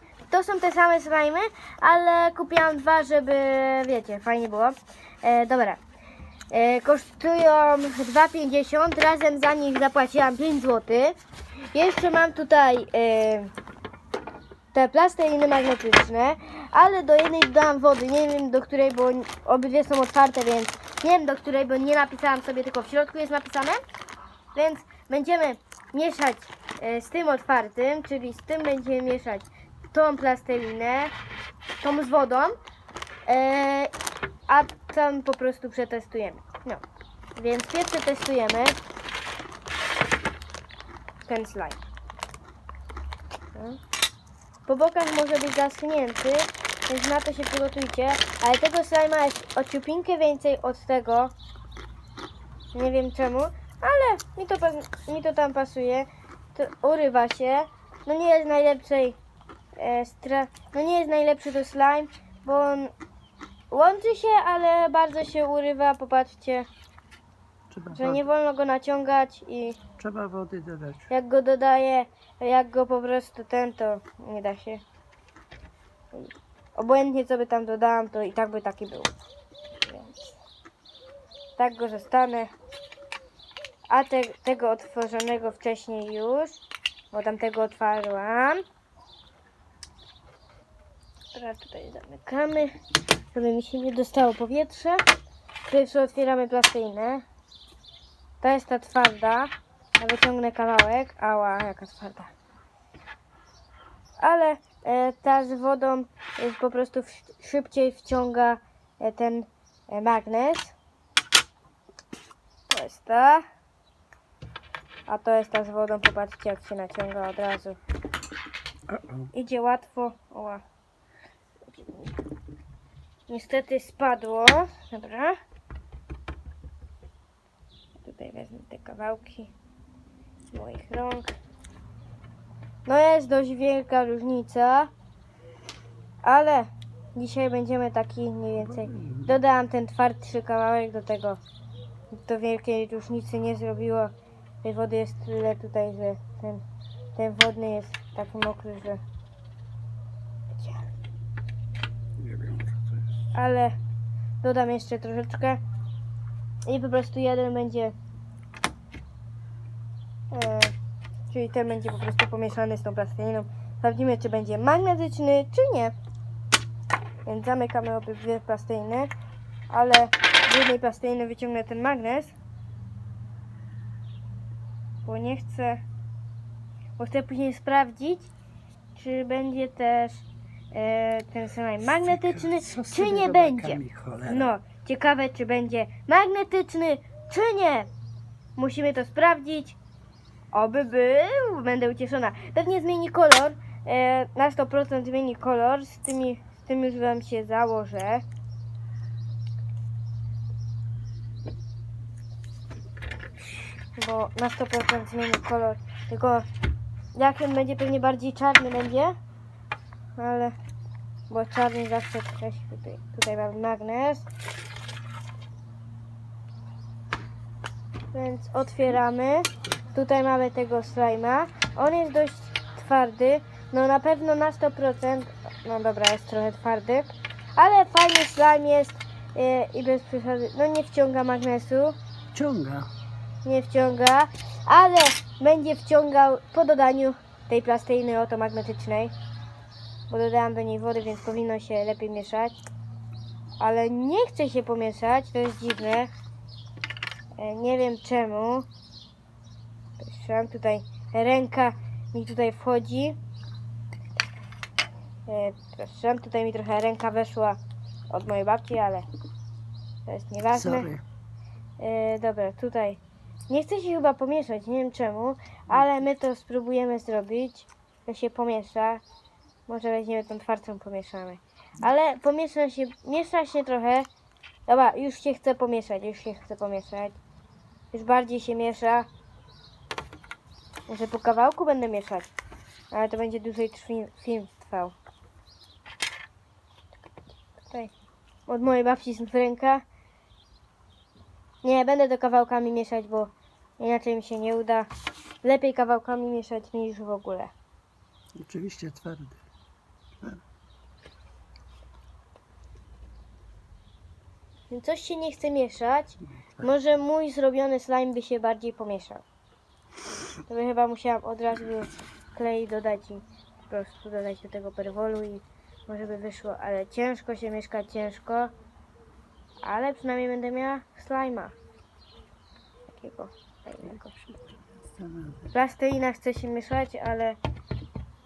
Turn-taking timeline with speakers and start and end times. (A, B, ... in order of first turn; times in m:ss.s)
0:00.3-0:05.8 A
0:06.5-0:11.2 A
0:11.7-0:13.5 A
0:14.7-0:23.8 A
0:24.5-0:31.1 A
0:31.8-0:32.6 A
0:33.2-0:33.9 A
0:34.5-0:36.8 A
0:37.4-0:38.8 A
0:41.2-0:41.8 A
0:43.5-0:43.8 A
0:44.6-0:51.3 A
0:52.7-0:59.2 A
0:59.8-1:02.9 A
1:03.7-1:06.7 A
1:07.7-1:08.2 B
1:07.9-1:09.8 A
1:10.0-1:11.1 B
1:11.1-1:14.8 A
1:16.1-1:19.1 A
1:19.8-1:20.2 A
1:21.6-1:22.5 A
1:23.9-1:26.6 A
1:27.1-1:28.6 A
1:31.3-1:32.8 A
1:33.3-1:35.0 A
1:35.7-1:37.2 A
1:38.4-1:42.3 A
1:44.2-1:50.7 A
1:52.7-1:53.4 A
1:55.1-1:57.8 A
1:58.9-1:59.3 B
1:59.3-2:00.6 A
2:03.3-2:05.4 A
2:08.0-2:09.5 A
2:10.5-2:11.3 A
2:12.8-2:14.9 A
2:16.2-2:21.4 A
2:18.8-2:19.3 B
2:22.1-2:26.6 A
2:27.1-2:29.0 A
2:30.6-2:30.8 A
2:32.2-2:33.1 B
2:33.3-2:33.8 A
2:34.4-2:35.6 A
2:36.6-2:37.9 A
2:40.3-2:40.7 A
2:41.3-2:45.9 A
2:47.2-2:49.1 A
2:49.7-2:52.3 A
2:55.0-2:55.8 A
2:57.0-2:58.3 A
2:58.9-3:07.9 A
3:01.9-3:04.5 B
3:08.6-3:09.8 A
3:10.5-3:18.2 A
3:24.0-3:26.4 A
3:27.1-3:29.1 A
3:30.2-3:30.5 A
3:31.3-3:34.3 A
3:38.1-3:52.0 A
3:52.3-3:52.9 B
3:53.4-3:59.1 A
4:00.1-4:02.6 A
4:03.6-4:06.1 A
4:07.4-4:08.7 A
4:10.0-4:13.2 A
4:15.3-4:17.6 A
4:18.1-4:19.0 A
4:20.1-4:20.9 A
4:20.5-4:21.0 B
4:21.8-4:29.0 A
4:29.7-4:34.1 A
4:34.7-4:37.2 A
4:37.9-4:39.1 A
4:40.9-4:42.3 A
4:42.9-4:44.9 A
4:47.6-4:47.9 A
4:48.5-4:49.8 A
4:51.6-4:54.9 A
4:55.4-4:57.5 A
4:58.4-4:59.4 B
5:04.7-5:09.2 A
5:10.5-5:18.5 A
5:19.6-5:21.5 A
5:22.9-5:24.1 A
5:24.2-5:25.5 B
5:25.5-5:27.4 A